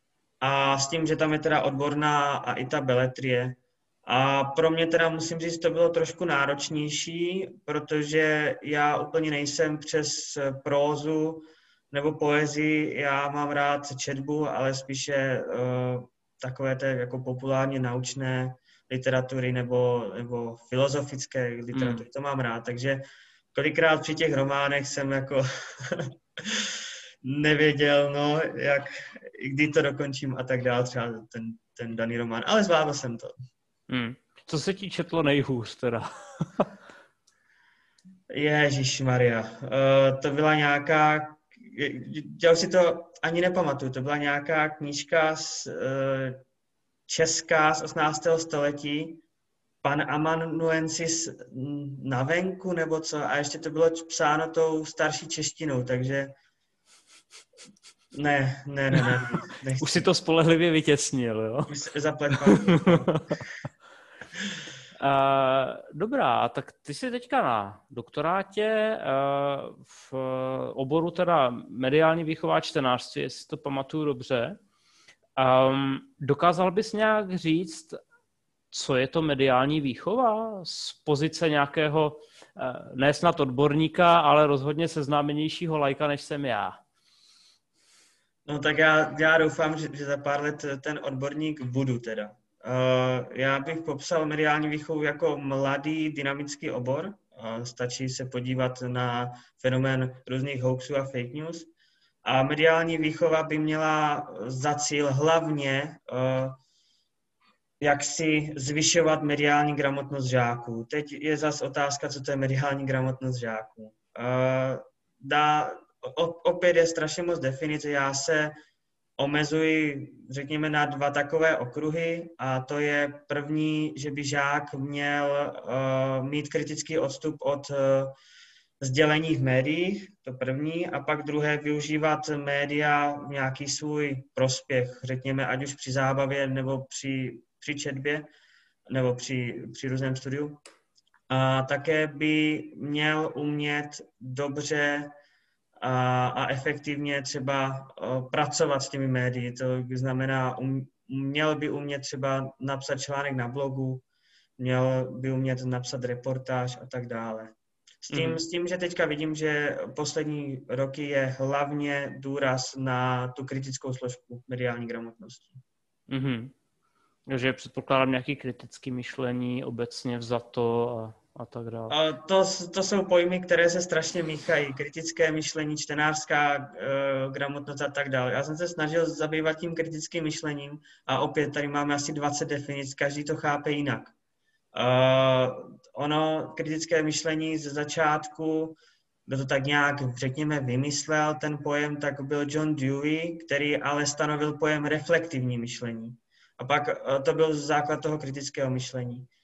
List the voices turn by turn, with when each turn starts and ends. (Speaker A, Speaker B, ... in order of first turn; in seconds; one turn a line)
Speaker A: 0.4-23.0
Speaker B: 21.7-22.1
Speaker A: 23.5-33.3
Speaker B: 33.9-36.7
Speaker A: 38.3-46.4
Speaker A: 47.1-49.2
Speaker A: 49.8-56.3
Speaker A: 58.1-60.0
Speaker B: 59.8-61.7
Speaker A: 61.7-63.1
Speaker B: 62.3-63.4
Speaker B: 65.0-74.6
Speaker B: 75.4-78.0
Speaker B: 78.7-86.8
Speaker A: 88.5-101.7
Speaker A: 102.2-106.6
Speaker A: 107.8-118.5
Speaker A: 119.2-128.1
Speaker A: 128.8-138.3
Speaker A: 138.9-140.6
Speaker A: 141.3-145.1
Speaker A: 145.8-154.0
Speaker A: 154.6-165.6
Speaker B: 158.1-158.4
Speaker B: 166.1-166.5
Speaker B: 167.3-171.9
Speaker A: 171.9-184.1
Speaker A: 184.7-199.3